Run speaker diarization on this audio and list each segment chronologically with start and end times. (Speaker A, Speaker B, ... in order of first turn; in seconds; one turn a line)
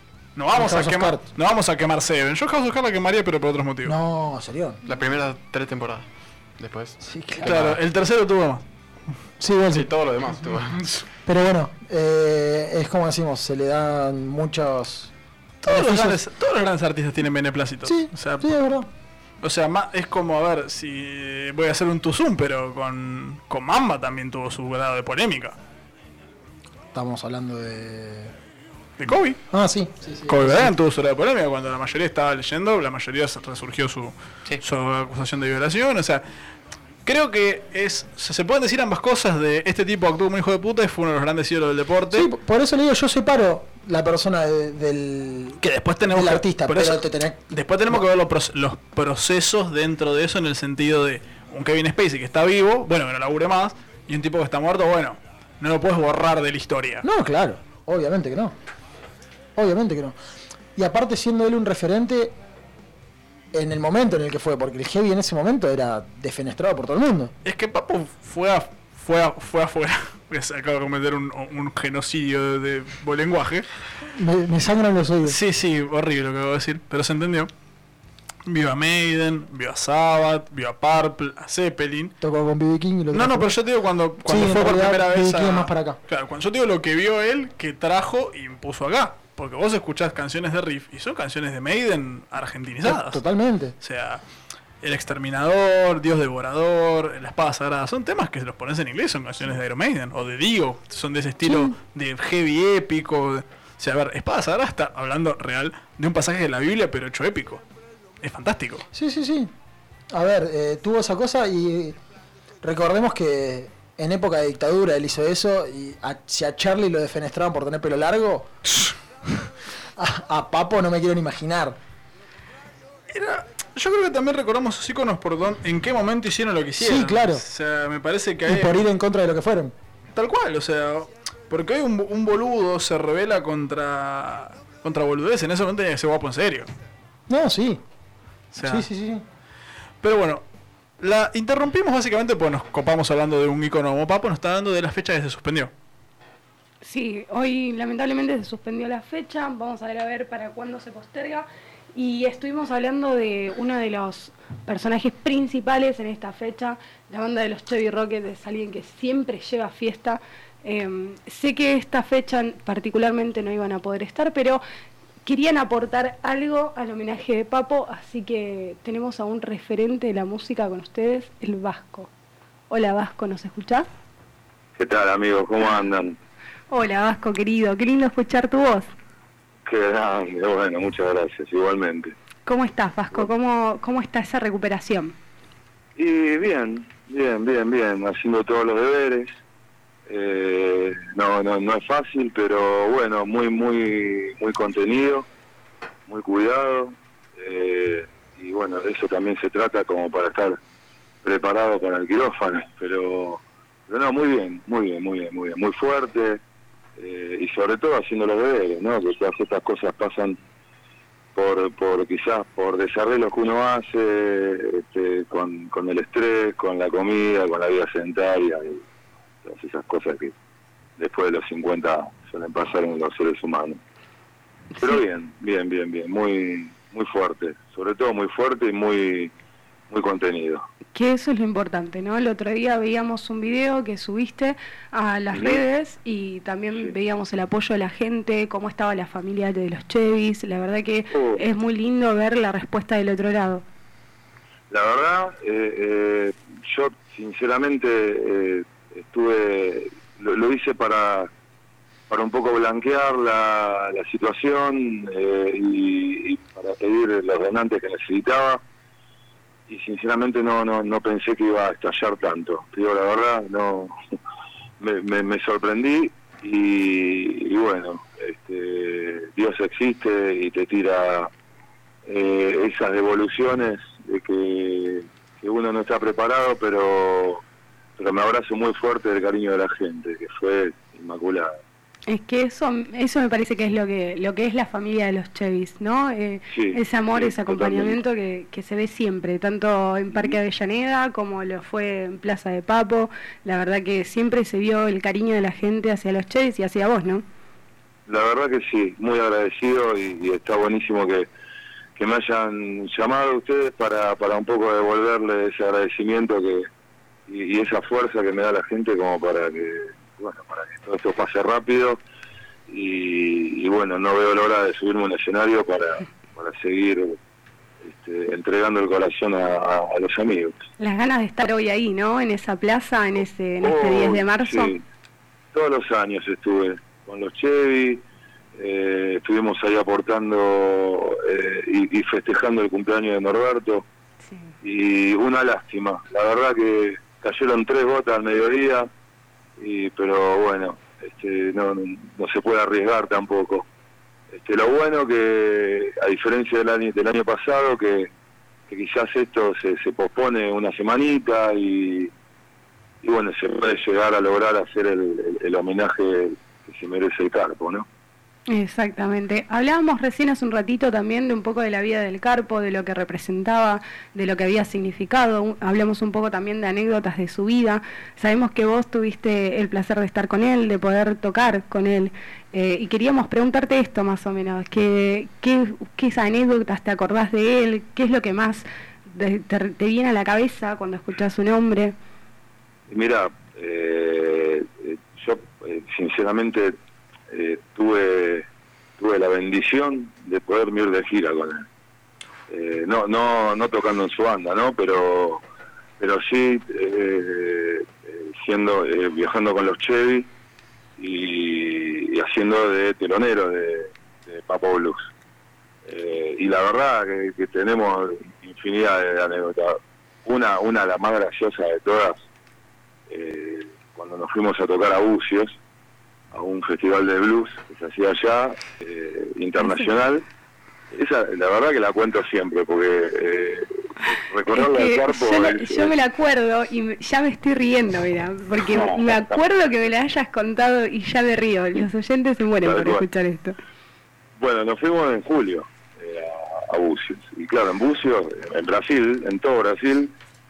Speaker A: 0.4-4.0
Speaker B: 0.5-1.2
Speaker B: 3.9-4.8
Speaker C: 4.8-6.1
Speaker C: 6.6-7.8
Speaker B: 7.0-7.7
Speaker A: 7.4-8.6
Speaker B: 9.4-9.9
Speaker C: 9.7-10.8
Speaker B: 11.3-15.1
Speaker A: 15.6-18.6
Speaker B: 15.6-16.2
Speaker B: 17.9-18.9
Speaker A: 19.4-25.6
Speaker B: 26.9-28.3
Speaker A: 29.0-29.4
Speaker B: 29.5-30.7
Speaker A: 30.3-36.2
Speaker A: 37.0-42.3
Speaker B: 42.1-48.0
Speaker A: 45.6-57.0
Speaker B: 57.0-58.5
Speaker B: 59.6-60.2
Speaker B: 60.8-62.4
Speaker B: 63.5-67.3
Speaker A: 67.5-73.7
Speaker B: 74.1-75.4
Speaker A: 75.2-77.5
Speaker A: 78.5-82.2
Speaker B: 82.2-83.5
Speaker A: 83.1-93.2
Speaker B: 84.2-86.0
Speaker B: 92.8-93.7
Speaker A: 93.8-94.2
Speaker A: 94.8-107.6
Speaker B: 101.4-101.8
Speaker A: 108.2-108.8
Speaker B: 108.9-109.5
Speaker B: 110.1-112.0
Speaker B: 112.6-118.5
Speaker B: 120.0-121.8
Speaker A: 123.1-128.9
Speaker B: 126.8-127.4
Speaker B: 128.5-129.7
Speaker A: 130.2-136.7
Speaker B: 137.3-137.8
Speaker A: 138.5-138.9
Speaker B: 138.6-139.2
Speaker A: 140.0-140.4
Speaker A: 141.0-145.7
Speaker D: 146.8-164.6
Speaker D: 165.2-172.1
Speaker D: 172.7-173.9
Speaker E: 174.8-176.2
Speaker D: 176.7-178.9
Speaker E: 179.7-182.1
Speaker D: 182.5-185.2
Speaker E: 186.0-189.4
Speaker E: 190.1-195.3
Speaker E: 196.1-200.6
Speaker E: 201.2-206.4
Speaker E: 207.0-210.4
Speaker E: 211.3-218.8
Speaker E: 219.4-220.3
Speaker E: 221.0-223.8
Speaker D: 224.8-225.0
Speaker E: 224.8-229.3
Speaker E: 229.9-230.7
Speaker D: 230.9-243.6
Speaker E: 235.3-235.7
Speaker E: 241.1-241.4
Speaker E: 244.7-251.3
Speaker E: 252.1-258.6
Speaker E: 259.7-263.9
Speaker E: 264.8-271.3
Speaker E: 272.1-277.4
Speaker E: 278.0-281.5
Speaker D: 282.1-297.2
Speaker E: 286.5-288.0
Speaker E: 290.1-290.4
Speaker E: 298.1-301.3
Speaker E: 302.0-306.7
Speaker E: 307.3-312.0
Speaker E: 312.7-317.2
Speaker E: 317.8-320.6
Speaker D: 320.8-324.7
Speaker E: 323.6-324.8
Speaker E: 325.5-328.0
Speaker E: 328.6-333.9
Speaker D: 334.2-334.5
Speaker E: 334.6-338.9
Speaker E: 339.6-343.7
Speaker E: 344.3-348.1
Speaker E: 348.7-352.1
Speaker E: 353.0-357.9
Speaker D: 358.5-382.0
Speaker E: 382.9-386.8
Speaker E: 387.3-388.5
Speaker E: 389.0-391.7
Speaker E: 392.5-395.4
Speaker E: 396.0-400.3
Speaker E: 401.0-405.1
Speaker E: 405.9-412.3
Speaker E: 413.1-415.6
Speaker E: 416.3-420.2
Speaker D: 419.6-419.9
Speaker E: 420.9-425.9
Speaker D: 424.5-433.6
Speaker E: 428.7-429.4
Speaker E: 432.6-433.1
Speaker E: 434.4-440.1